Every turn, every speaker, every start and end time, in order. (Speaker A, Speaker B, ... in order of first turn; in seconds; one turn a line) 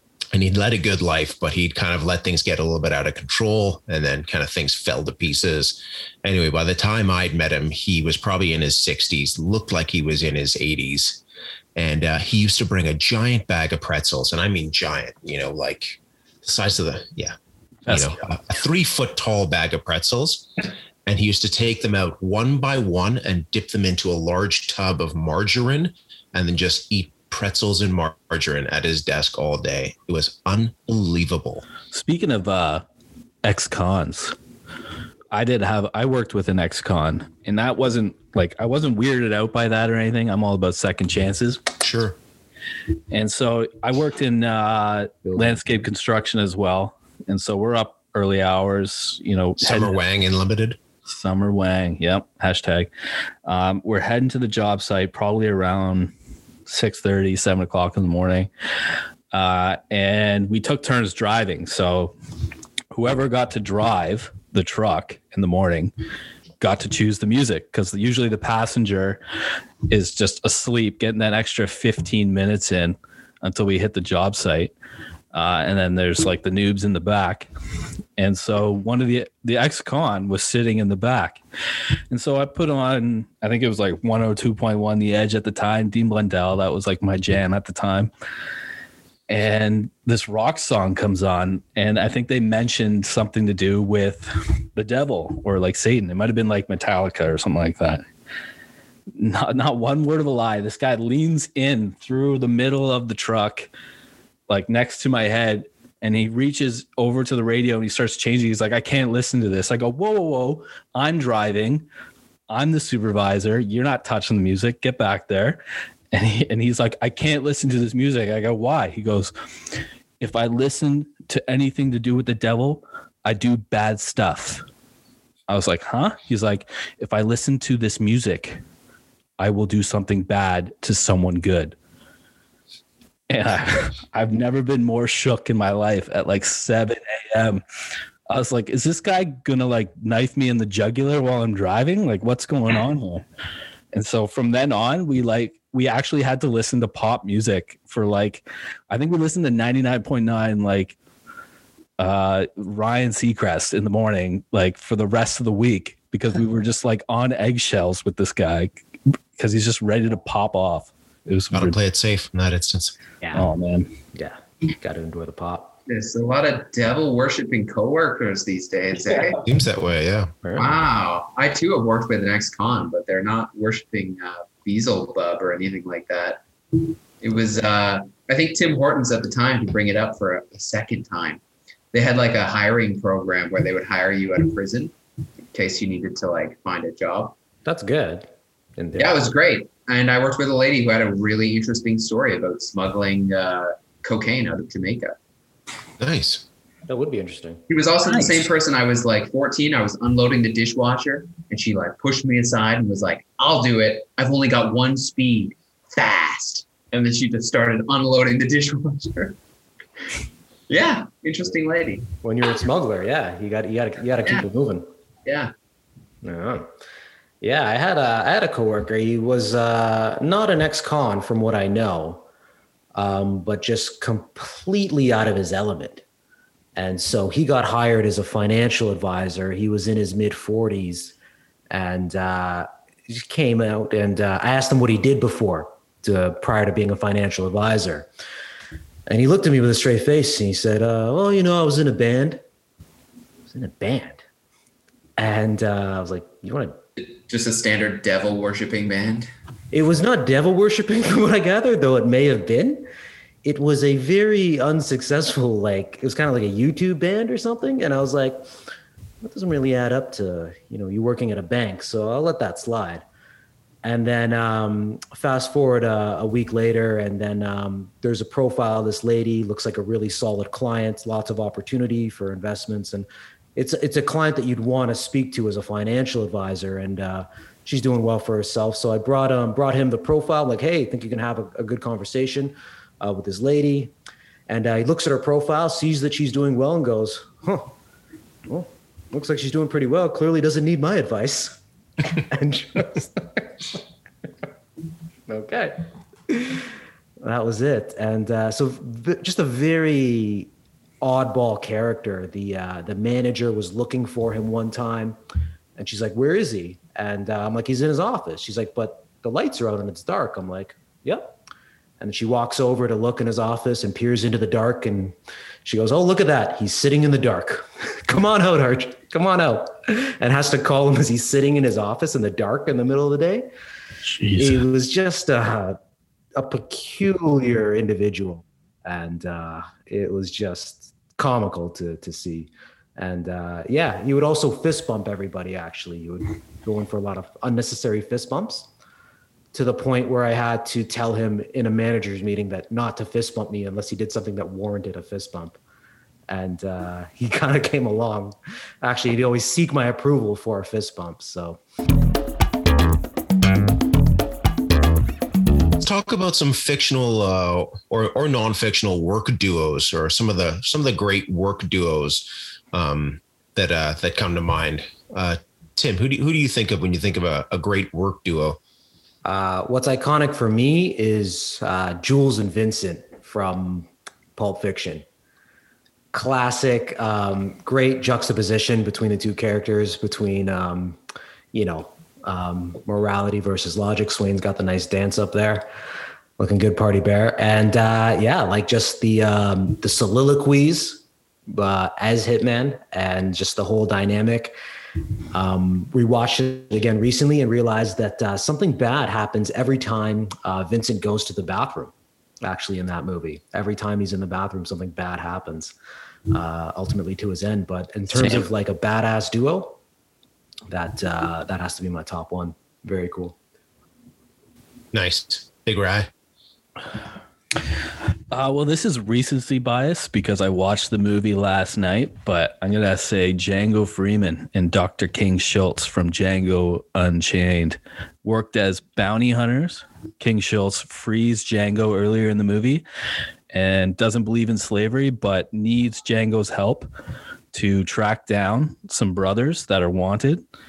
Speaker A: 0.3-11.2
Speaker A: 11.8-17.4
Speaker B: 17.9-18.2
Speaker A: 17.9-31.6
Speaker B: 31.9-32.8
Speaker B: 33.4-34.4
Speaker B: 35.3-41.6
Speaker A: 41.8-42.2
Speaker B: 43.1-50.0
Speaker C: 45.3-45.5
Speaker A: 49.6-50.8
Speaker B: 51.1-52.9
Speaker B: 53.4-56.1
Speaker B: 56.6-58.5
Speaker B: 59.3-62.1
Speaker B: 62.9-65.9
Speaker B: 66.6-69.2
Speaker B: 69.9-74.7
Speaker B: 75.3-77.5
Speaker B: 78.2-81.4
Speaker B: 82.1-88.1
Speaker B: 89.3-98.0
Speaker B: 99.1-103.7
Speaker B: 104.5-111.8
Speaker B: 112.5-115.6
Speaker B: 116.1-119.3
Speaker B: 120.2-124.6
Speaker B: 125.5-128.6
Speaker B: 129.4-131.7
Speaker B: 133.3-137.6
Speaker B: 138.3-143.2
Speaker B: 143.9-150.9
Speaker B: 152.0-158.8
Speaker B: 159.3-161.8
Speaker A: 161.5-162.9
Speaker C: 163.2-163.5
Speaker B: 163.3-163.9
Speaker C: 164.1-165.7
Speaker D: 165.9-169.4
Speaker A: 169.4-170.4
Speaker C: 170.4-170.7
Speaker D: 170.6-181.4
Speaker D: 181.9-184.9
Speaker D: 185.5-187.3
Speaker C: 187.6-189.2
Speaker D: 189.0-195.1
Speaker A: 196.0-196.4
Speaker C: 196.9-197.6
Speaker D: 197.7-209.4
Speaker D: 210.7-212.1
Speaker C: 212.2-214.8
Speaker D: 215.2-215.5
Speaker C: 216.2-216.7
Speaker C: 217.4-222.2
Speaker C: 222.9-226.0
Speaker C: 226.8-231.1
Speaker C: 231.7-238.1
Speaker C: 239.1-242.4
Speaker C: 243.5-244.2
Speaker C: 245.2-246.8
Speaker D: 247.0-249.3
Speaker C: 249.7-252.9
Speaker C: 253.4-258.4
Speaker C: 259.2-263.0
Speaker C: 263.8-283.9
Speaker C: 284.5-287.7
Speaker C: 288.4-293.8
Speaker C: 295.3-296.7
Speaker C: 297.2-300.5
Speaker C: 301.0-305.2
Speaker C: 305.8-311.4
Speaker C: 312.0-323.5
Speaker B: 324.0-324.6
Speaker C: 324.4-325.8
Speaker C: 326.4-338.7
Speaker C: 339.5-345.6
Speaker C: 346.3-351.6
Speaker A: 355.8-368.6
Speaker C: 369.2-375.0
Speaker C: 376.1-381.0
Speaker C: 381.5-385.6
Speaker C: 386.4-394.5
Speaker C: 395.3-405.7
Speaker C: 406.3-409.8
Speaker B: 408.2-408.4
Speaker C: 410.7-413.4
Speaker A: 414.9-416.1
Speaker B: 418.3-432.8
Speaker B: 433.5-436.9
Speaker B: 437.5-440.4